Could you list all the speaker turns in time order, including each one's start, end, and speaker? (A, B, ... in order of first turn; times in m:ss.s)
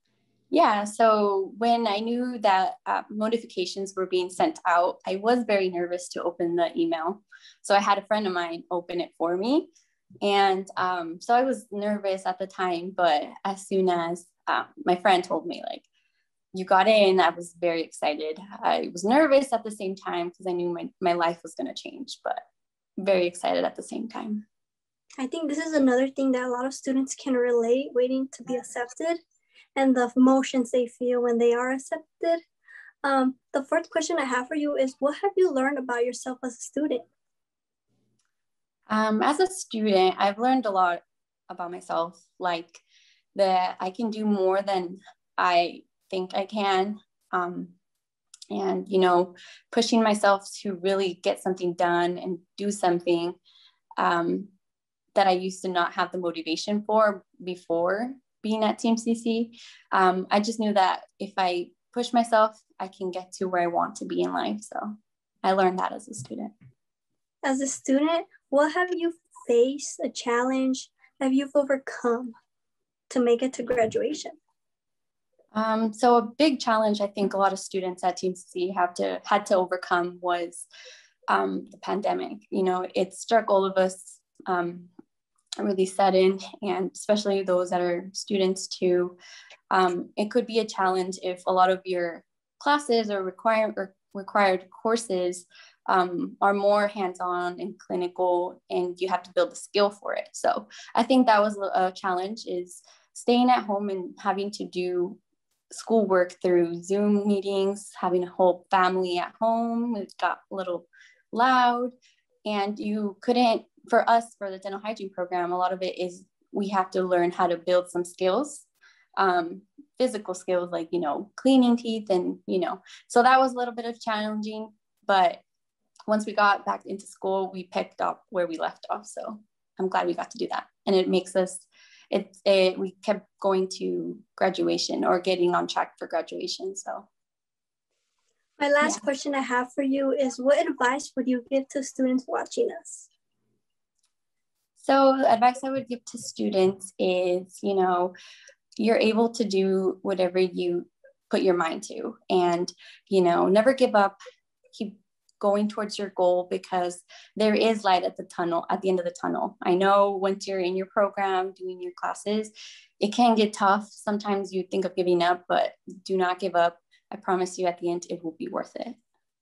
0:00.5-0:09.7 A
0:10.2-0:15.9 A
0:16.5-0:22.4 A
0:23.0-0:24.4 A
0:25.2-0:29.2 B
0:29.8-0:32.4 B
0:33.0-0:37.1 B
0:38.9-0:42.8 A
0:43.4-0:47.7 A
0:48.5-0:53.4 A
0:54.0-0:54.5 A
0:55.2-1:06.5 A
1:07.4-1:12.3 B
1:13.1-1:14.4 B
1:15.5-1:20.7 A
1:21.3-1:24.9 A
1:25.6-1:29.2 A
1:29.7-1:45.2 A
1:45.7-1:52.0 A
1:52.5-2:05.4 A
2:06.1-2:17.1 A
2:18.6-2:23.1 B
2:24.8-2:28.1 A
2:28.8-2:34.2 A
2:34.7-2:49.0 A